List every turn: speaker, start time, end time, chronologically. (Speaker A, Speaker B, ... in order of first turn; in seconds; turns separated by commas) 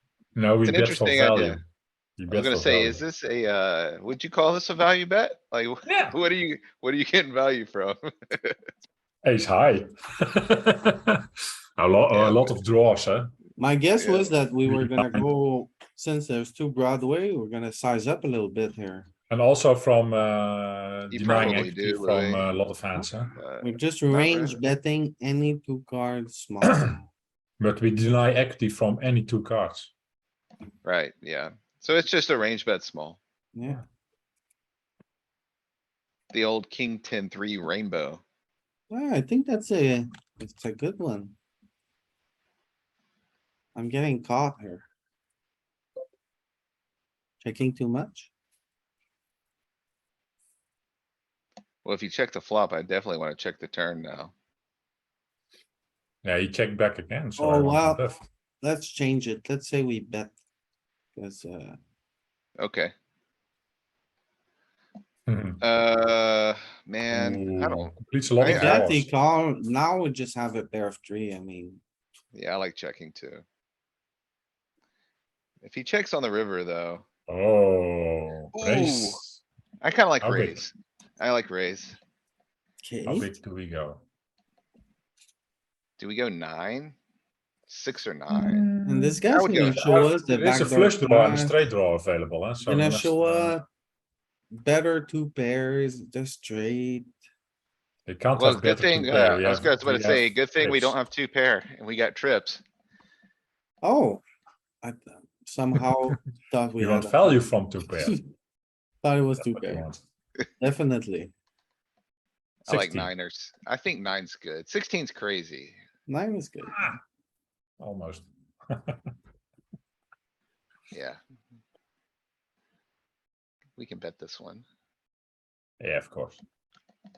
Speaker A: 0.3-1.6, Speaker B: 0.6-1.6, Speaker A: 2.2-3.0, Speaker B: 2.3-8.6, Speaker A: 5.9-6.1, Speaker A: 9.2-11.2, Speaker A: 11.8-13.4, Speaker B: 12.1-12.5, Speaker C: 13.6-19.1, Speaker B: 13.9-14.3, Speaker A: 14.6-15.3, Speaker A: 19.3-23.4, Speaker B: 21.1-22.5, Speaker B: 23.4-24.6, Speaker C: 23.6-27.1, Speaker A: 27.6-29.9, Speaker B: 30.8-33.2, Speaker C: 33.5-33.8, Speaker B: 36.3-38.2, Speaker C: 38.9-41.3, Speaker C: 43.8-44.9, Speaker C: 47.4-48.3, Speaker B: 51.8-54.3, Speaker A: 56.2-58.2, Speaker C: 57.4-60.3, Speaker C: 61.1-61.8, Speaker B: 62.6-62.9, Speaker A: 65.3-65.6, Speaker B: 65.6-68.9, Speaker A: 67.1-69.1, Speaker C: 68.5-71.8, Speaker B: 72.3-73.4, Speaker B: 75.6-77.1, Speaker A: 77.3-79.4, Speaker B: 78.5-79.2, Speaker B: 79.8-82.0, Speaker A: 80.2-80.6, Speaker C: 82.8-83.3, Speaker A: 83.0-84.0, Speaker B: 86.0-87.0, Speaker B: 87.7-88.7, Speaker A: 88.3-93.6, Speaker C: 88.8-91.6, Speaker B: 89.3-90.1, Speaker C: 92.6-93.7, Speaker C: 94.5-97.1, Speaker A: 98.1-101.0, Speaker B: 98.3-102.6, Speaker C: 103.8-104.2, Speaker C: 104.8-107.5, Speaker A: 106.8-108.2, Speaker C: 109.0-109.8, Speaker A: 109.5-110.0, Speaker C: 110.6-111.3, Speaker B: 112.7-115.8, Speaker A: 112.7-113.1, Speaker C: 116.1-116.8, Speaker A: 116.7-117.0, Speaker A: 117.8-119.1, Speaker B: 120.9-121.2, Speaker B: 123.8-124.6, Speaker A: 125.8-126.4